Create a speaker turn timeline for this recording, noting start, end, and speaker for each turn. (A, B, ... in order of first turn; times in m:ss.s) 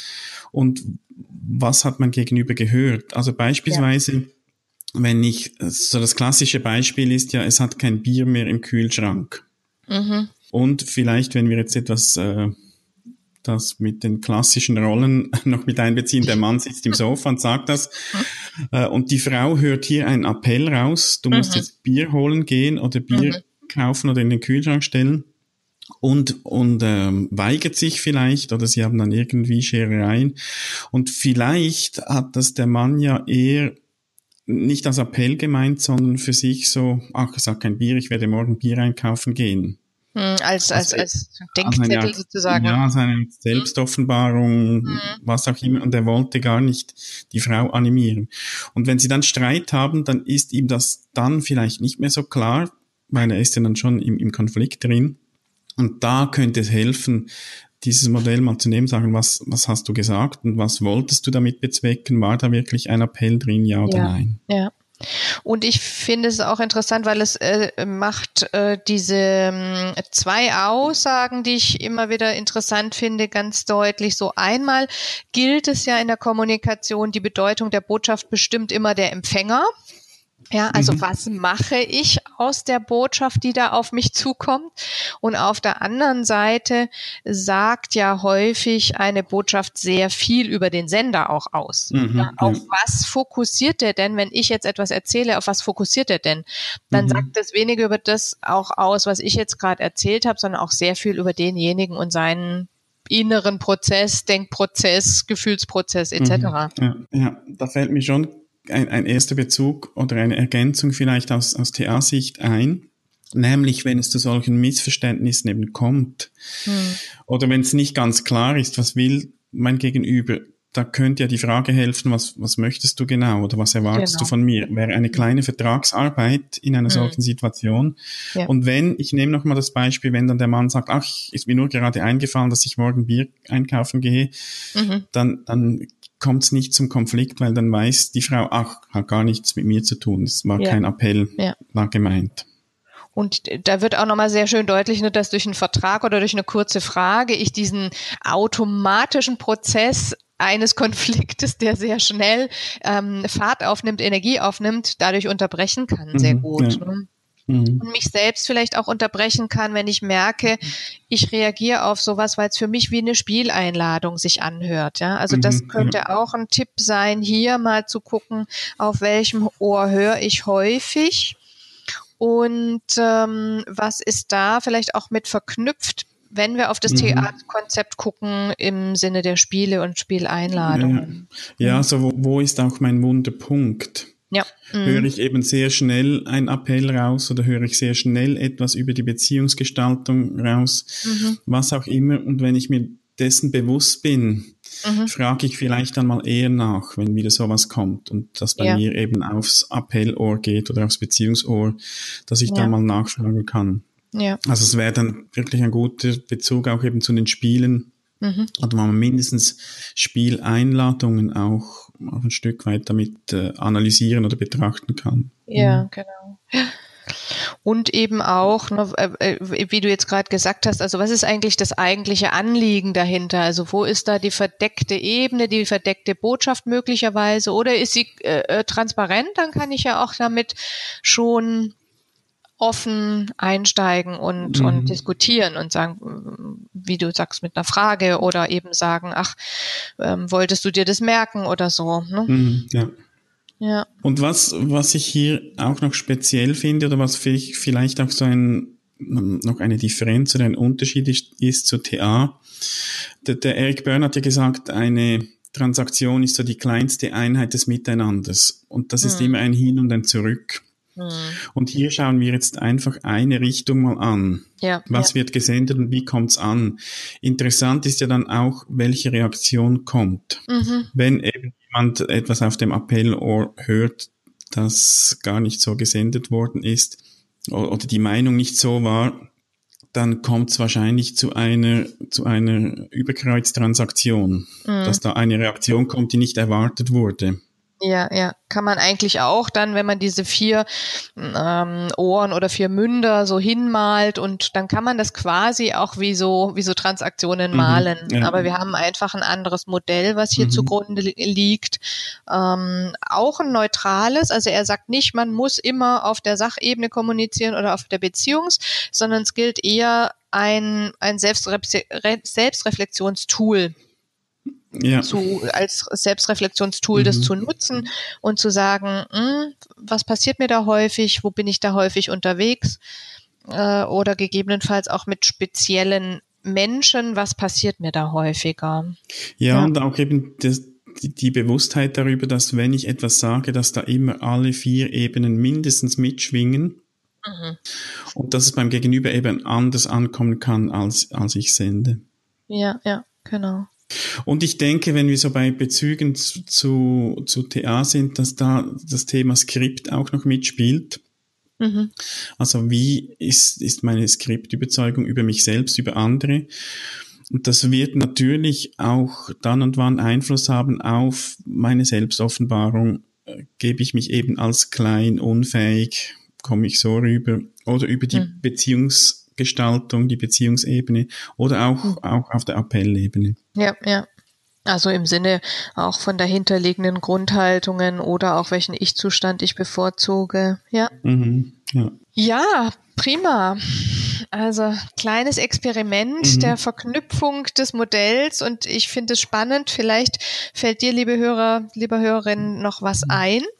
0:00.5-0:04.3 A
0:05.0-0:09.4 A
0:09.9-0:10.3 B
0:10.5-0:12.5 A
0:13.4-0:17.9 A
0:18.7-0:25.3 A
0:21.3-0:21.6 B
0:23.1-0:23.4 B
0:26.0-0:30.4 A
0:30.9-0:33.8 A
0:34.5-0:39.8 A
0:40.1-0:42.8 B
0:40.7-0:41.1 A
0:41.6-0:55.2 A
0:44.9-0:45.2 B
0:55.8-1:04.4 A
1:03.8-1:19.7 B
1:20.5-1:46.7 B
1:20.7-1:21.0 A
1:31.9-1:32.6 A
1:36.9-1:37.3 A
1:46.2-1:56.3 A
1:56.6-1:57.0 B
1:57.2-2:14.3 A
2:03.9-2:04.3 B
2:06.9-2:07.2 B
2:14.7-2:15.0 B
2:15.1-2:22.4 A
2:23.1-2:37.1 B
2:36.1-2:36.8 A
2:37.5-2:37.8 A
2:37.8-2:51.4 B
2:45.3-2:46.0 A
2:52.2-3:01.8 B
2:56.9-2:57.3 A
3:00.7-3:04.1 A
3:04.3-3:05.1 B
3:04.8-3:14.5 A
3:11.0-3:11.4 B
3:14.8-3:15.1 B
3:15.0-3:23.8 A
3:18.6-3:18.8 B
3:22.5-3:22.7 B
3:24.1-3:24.4 B
3:24.4-3:27.9 A
3:28.2-3:28.5 B
3:28.6-3:35.9 A
3:35.5-3:51.7 B
3:52.6-4:02.3 B
3:54.5-3:55.0 A
4:02.3-4:02.9 A
4:03.6-4:03.8 B
4:04.0-4:12.4 A
4:13.2-4:20.6 A
4:19.0-4:19.4 B
4:21.0-4:21.4 B
4:21.5-4:39.2 A
4:24.6-4:25.1 B
4:30.5-4:30.9 B
4:39.9-4:47.4 A
4:44.6-4:45.0 B
4:47.8-5:13.7 B
4:57.5-4:58.4 A
5:00.4-5:00.7 A
5:14.7-5:15.2 A
5:15.0-5:22.8 B
5:16.9-5:17.3 A
5:23.5-5:29.0 B
5:29.4-5:36.8 A
5:37.2-5:37.6 B
5:38.1-5:42.0 A
5:42.5-5:43.7 B
5:44.2-5:51.0 A
5:51.6-5:51.9 B
5:52.4-5:56.5 A
5:57.3-6:13.4 A
6:13.6-6:14.1 B
6:14.7-6:20.9 B
6:21.0-6:21.9 A
6:22.2-6:33.5 B
6:26.2-6:26.6 A